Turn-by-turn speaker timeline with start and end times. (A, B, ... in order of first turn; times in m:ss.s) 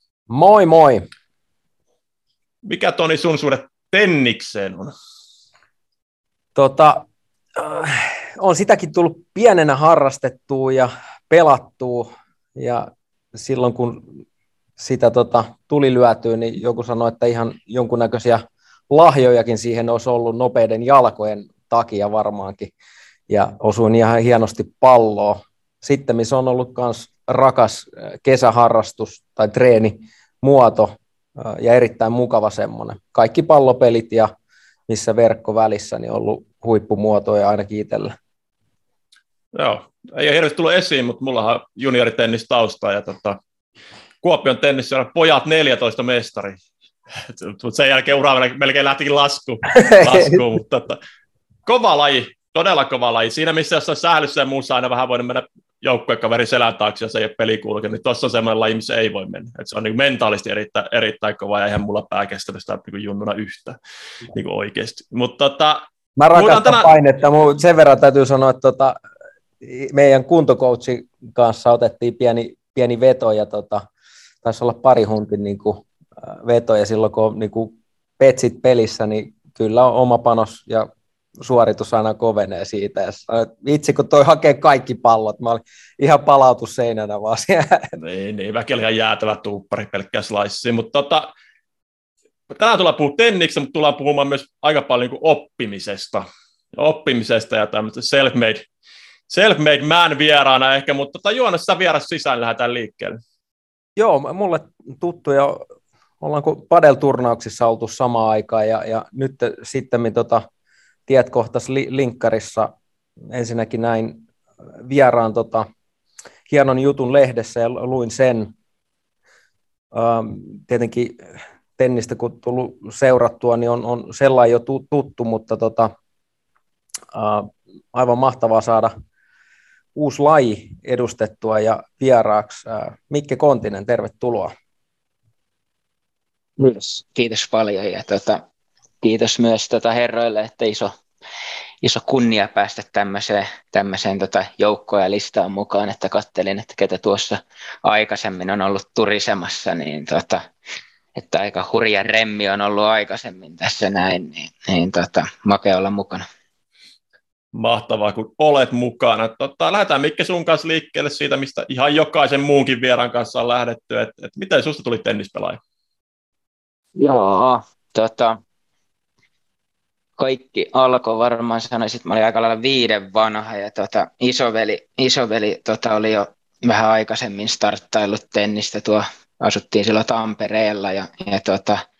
0:00.3-0:01.1 A
0:02.6-0:04.9 B
0:06.6-0:14.1 A
0:14.8-0:22.7 A
0:23.3-0:34.3 A
0:34.9-0:38.1 A
0:39.5-0:43.4 B
0:44.2-0:46.6 B
0:47.3-0:51.0 B
0:50.0-0:50.4 A
0:51.7-1:03.8 B
1:04.3-1:07.0 B
1:06.2-1:09.0 A
1:09.6-1:13.8 A
1:14.4-1:20.9 A
1:21.4-1:27.9 A
1:28.0-1:31.3 B
1:32.5-1:38.7 B
1:39.3-1:43.2 B
1:44.0-1:45.6 A
1:46.2-1:50.4 A
1:51.1-1:52.7 A
1:53.3-1:54.2 A
1:54.8-1:55.7 A
1:56.5-1:58.5 A
1:59.9-2:01.3 A
2:01.8-2:05.9 A
2:07.1-2:08.9 A
2:10.0-2:14.5 A
2:16.6-2:18.4 C
2:19.0-2:20.9 C
2:21.8-2:30.4 C
2:31.2-2:36.2 C
2:37.5-2:45.6 B
2:47.0-2:48.4 C
2:50.2-3:01.8 C